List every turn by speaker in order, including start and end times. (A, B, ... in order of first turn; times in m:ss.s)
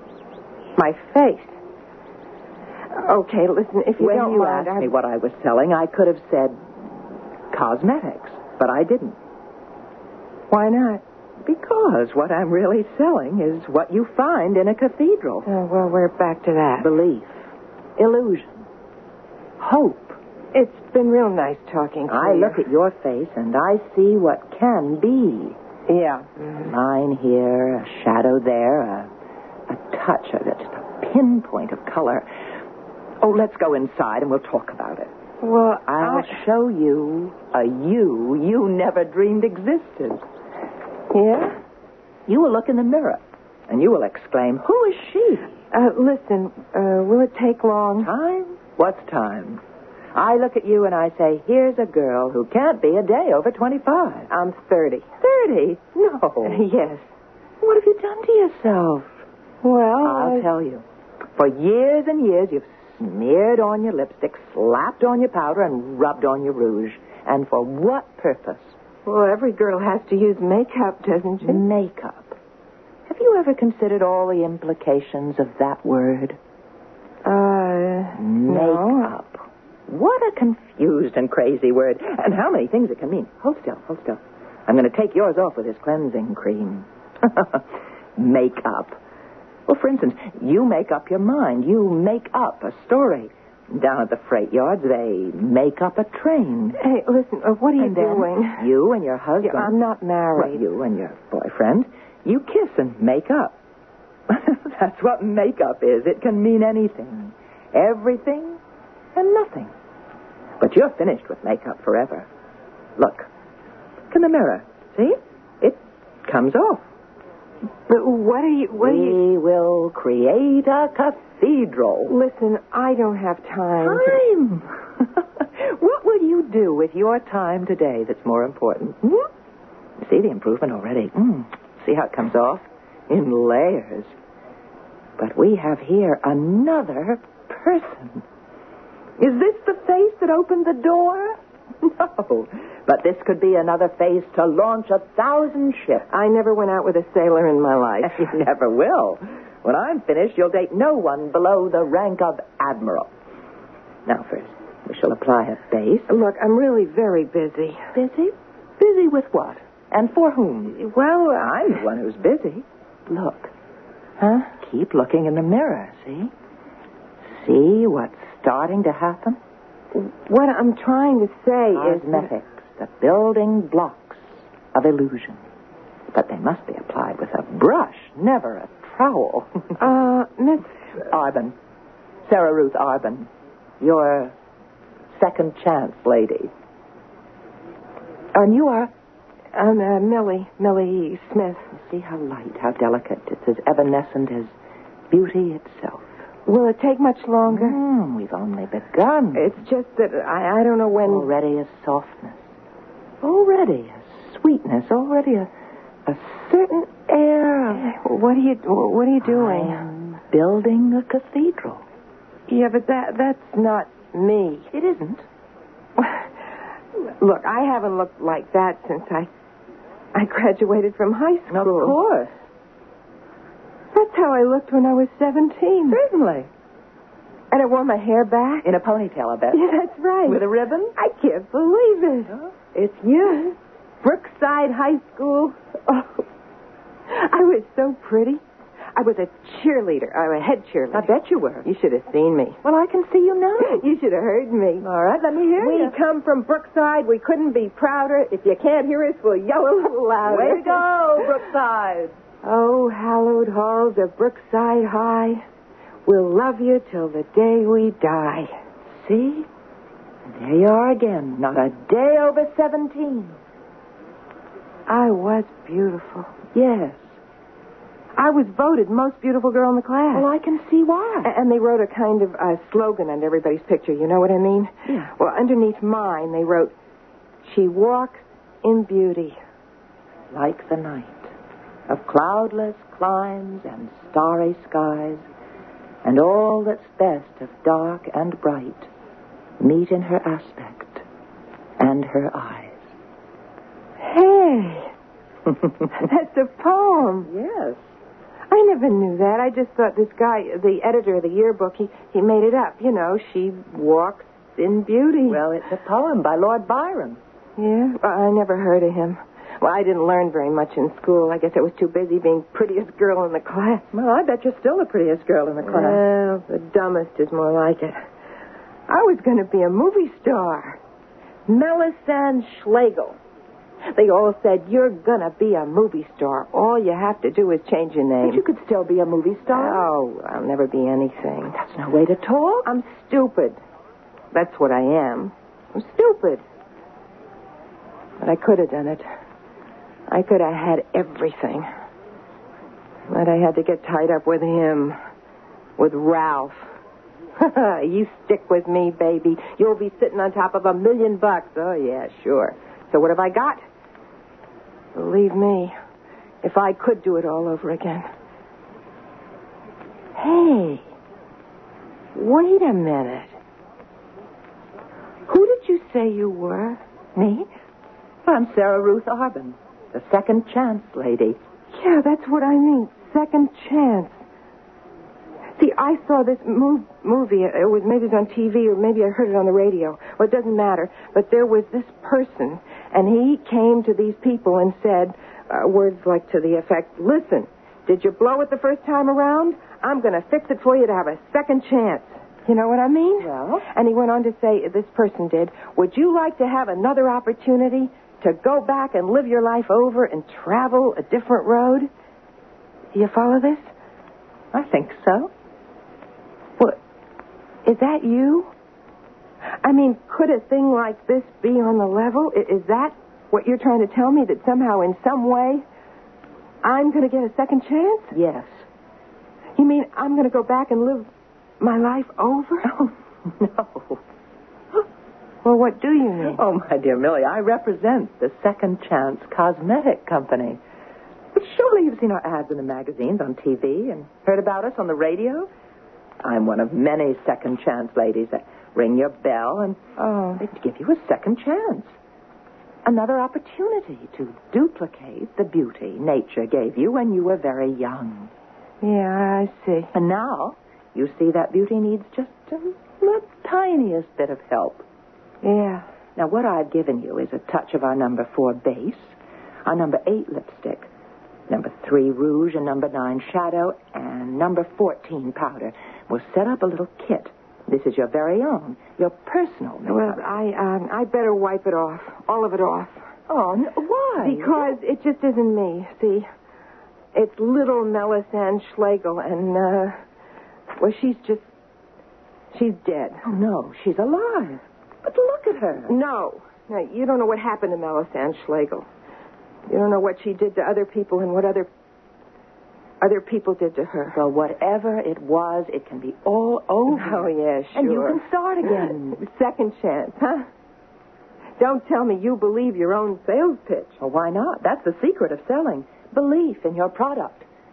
0:00.8-0:01.6 A
0:03.0-0:04.9 A
0:04.0-0:06.9 B
0:07.5-0:09.2 B
0:10.5-0:11.0 A
0:11.4-0:15.5 B
0:15.5-0:16.9 A
0:16.8-0:17.4 B
0:18.0-0:18.7 B
0:19.6-0:20.2 B
0:20.5-0:22.6 A
0:22.1-0:25.6 B
0:25.9-0:26.3 A
0:26.6-0:29.1 B
0:29.7-0:32.3 B
0:33.2-0:35.1 B
0:35.4-0:36.4 A
0:35.9-0:40.2 B
0:41.1-0:41.6 A
0:42.3-0:45.5 B
0:45.7-0:48.1 A
0:48.0-0:49.6 B
0:50.2-0:54.3 B
0:54.3-0:55.1 A
0:55.2-0:56.6 B
0:56.4-0:57.1 A
0:57.6-0:59.2 B
0:59.6-1:00.5 A
1:00.0-1:00.8 B
1:01.4-1:08.8 B
1:09.0-1:11.7 A
1:11.4-1:12.4 B
1:13.1-1:16.4 B
1:17.2-1:19.2 A
1:18.2-1:29.0 B
1:29.7-1:36.8 B
1:36.8-1:38.7 A
1:37.8-1:39.8 B
1:39.4-1:40.6 A
1:40.4-1:43.6 B
1:44.3-1:48.6 B
1:49.2-1:49.7 B
1:50.6-1:52.3 B
1:53.0-1:53.3 B
1:54.1-1:56.8 B
1:57.9-1:59.2 A
1:58.8-2:02.2 B
2:02.1-2:04.2 A
2:03.8-2:09.3 B
2:10.0-2:14.1 B
2:15.2-2:18.2 B
2:19.2-2:26.1 B
2:26.1-2:28.3 A
2:28.0-2:33.1 B
2:34.1-2:36.1 B
2:36.1-2:37.9 A
2:37.9-2:43.5 B
2:40.8-2:41.4 A
2:44.2-2:44.5 A
2:44.6-2:46.3 B
2:47.2-2:49.4 B
2:49.9-2:52.3 A
2:51.7-2:55.4 B
2:56.1-2:59.8 B
2:59.8-3:00.7 A
3:01.1-3:01.6 B
3:02.3-3:03.3 B
3:03.8-3:04.3 B
3:05.2-3:06.5 B
3:08.4-3:08.9 B
3:09.6-3:11.7 A
3:11.7-3:14.5 B
3:15.1-3:16.1 B
3:16.5-3:17.8 A
3:17.5-3:19.6 B
3:19.4-3:21.3 A
3:21.0-3:22.5 B
3:23.2-3:25.5 B
3:26.1-3:28.0 B
3:27.7-3:29.9 A
3:29.2-3:31.8 B
3:32.5-3:34.7 A
3:34.7-3:35.2 B
3:36.0-3:36.3 A
3:37.2-3:39.3 A
3:40.1-3:42.0 A
3:41.5-3:42.4 B
3:43.9-3:46.0 A
3:45.9-3:46.5 B
3:47.5-3:48.7 A
3:48.6-3:51.0 B
3:49.5-3:50.4 A
3:51.0-3:56.3 A
3:57.1-3:58.4 A
3:59.0-4:01.1 A
4:00.9-4:01.7 B
4:01.6-4:02.6 A
4:02.6-4:03.8 B
4:03.6-4:04.9 A
4:04.8-4:06.0 B
4:05.4-4:10.9 A
4:10.3-4:12.2 B
4:12.4-4:15.4 A
4:16.1-4:18.6 A
4:19.0-4:19.5 B
4:20.3-4:23.4 B
4:24.9-4:26.3 A
4:26.5-4:27.2 B
4:28.2-4:30.3 A
4:30.1-4:31.3 B
4:31.2-4:36.7 A
4:34.9-4:35.1 B
4:37.4-4:39.4 A
4:40.3-4:41.3 B
4:41.9-4:45.2 B
4:46.0-4:48.9 B
4:49.6-4:51.0 B
4:51.8-4:52.9 B
4:54.0-4:54.9 A
4:55.9-4:57.3 A
4:57.3-4:57.8 B
4:58.5-5:05.4 A
5:05.3-5:07.2 B
5:07.6-5:13.9 A
5:13.9-5:16.0 B
5:15.6-5:18.0 A
5:18.9-5:20.8 A
5:21.5-5:23.2 A
5:23.9-5:28.4 A
5:28.2-5:29.9 B
5:29.5-5:31.6 A
5:31.6-5:32.7 B
5:32.6-5:33.6 A
5:34.3-5:36.4 A
5:38.2-5:39.1 A
5:40.1-5:41.7 A
5:43.1-5:45.0 A
5:45.8-5:46.6 A
5:47.4-5:53.6 A
5:55.0-5:55.7 A
5:56.4-5:58.1 A
6:00.2-6:00.8 A
6:02.2-6:03.4 A
6:05.3-6:06.8 A
6:07.2-6:07.5 B
6:08.2-6:11.4 B
6:11.7-6:14.2 A
6:15.6-6:41.9 A
6:33.2-6:33.6 B
6:42.9-6:43.7 A
6:44.5-6:45.3 B
6:47.6-6:48.5 A
6:49.6-6:55.6 A
6:56.6-6:58.2 A
6:58.1-6:58.6 B
6:59.6-7:01.1 A
7:01.6-7:02.7 A
7:02.6-7:04.0 B
7:05.4-7:06.4 A
7:06.2-7:10.6 B
7:11.3-7:15.5 B
7:16.2-7:19.8 B
7:20.0-7:20.4 A
7:20.4-7:22.0 B
7:22.8-7:28.3 B
7:28.8-7:29.9 A
7:29.9-7:34.8 B
7:35.4-7:35.9 A
7:36.2-7:40.9 B
7:41.5-7:50.2 B
7:49.9-7:53.0 A
7:53.3-7:54.8 B
7:54.2-7:56.3 A
7:57.1-8:00.0 A
8:00.8-8:01.5 A
8:02.5-8:03.2 A
8:03.2-8:06.0 B
8:05.9-8:08.9 A
8:09.7-8:11.7 A
8:13.0-8:14.2 A
8:14.1-8:19.2 B
8:16.9-8:20.5 A
8:21.6-8:24.0 A
8:24.0-8:27.5 B